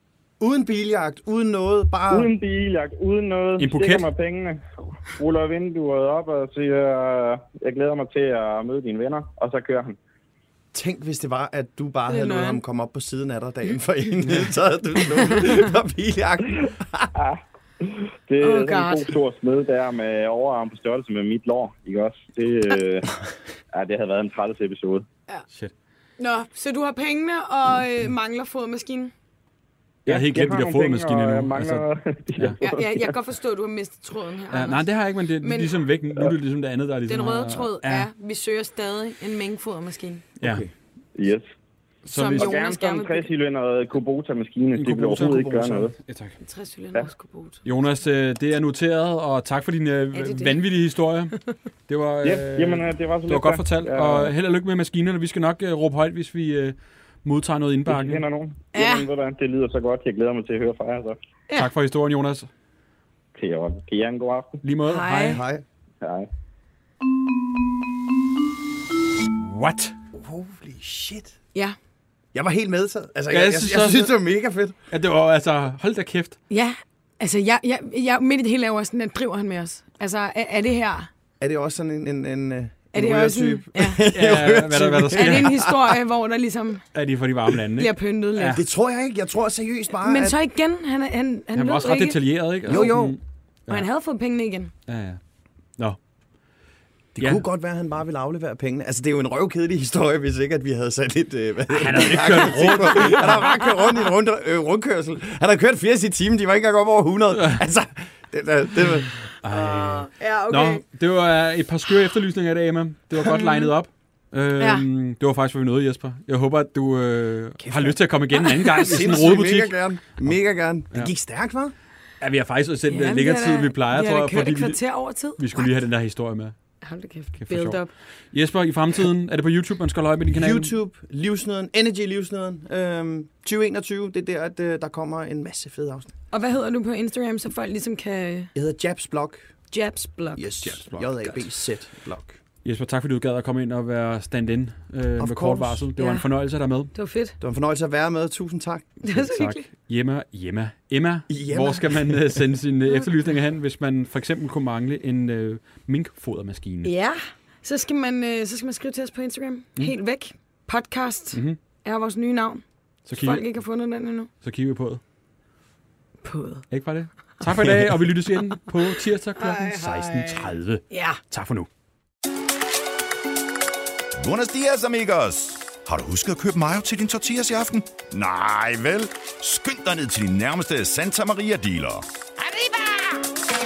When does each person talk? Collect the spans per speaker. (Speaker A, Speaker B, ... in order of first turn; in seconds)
Speaker A: 0.4-2.3, 10.7-17.1, 40.4-40.7, 45.2-45.9, 65.1-65.6, 70.2-71.3, 72.3-74.8, 81.4-85.8, 88.5-90.4, 92.7-93.2, 97.2-109.1, 117.6-121.7, 130.3-136.1, 138.6-139.5, 140.3-142.3, 145.2-145.9, 147.4-148.9, 151.3-152.4
Speaker B: 2.1-10.0, 17.1-23.1, 23.7-25.1, 30.1-33.1, 41.2-41.5, 42.2-45.9, 52.2-54.3, 57.9-61.2, 63.4-64.6, 66.0-66.3
Speaker C: 3.6-4.1, 30.1-31.9, 34.5-38.1, 42.1-42.5, 44.8-46.4, 47.6-58.2, 61.6-62.5, 64.6-65.4, 69.4-70.0, 73.3-74.1, 74.9-76.4, 84.1-85.6, 86.9-88.6, 91.5-93.9, 94.9-95.2, 97.2-97.4, 101.7-103.5, 107.3-107.6, 109.4-120.3, 122.2-124.8, 125.4-126.5, 127.4-127.8, 128.3-130.7, 140.6-141.4, 142.6-146.9, 149.1-156.9, 161.3-161.6, 163.1-163.6, 164.4-165.0, 166.7-171.7
Speaker D: 12.1-12.6, 18.4-19.1, 26.2-29.1, 32.6-34.9, 35.4-35.8, 37.1-40.2, 42.1-43.3, 46.4-47.6, 50.1-50.6, 58.7-59.1, 64.9-65.4, 76.5-81.1, 82.9-84.0, 85.1-86.8, 87.8-88.6, 90.0-92.2, 92.7-93.0, 93.7-94.7, 109.4-110.8, 113.3-113.7, 114.6-114.8, 122.9-125.7, 126.8-127.9, 136.3-138.5, 139.7-140.4, 146.0-146.3, 146.9-147.4, 149.0-149.7, 156.8-164.3, 166.2-166.7, 169.4-171.2
Speaker E: 174.2-182.6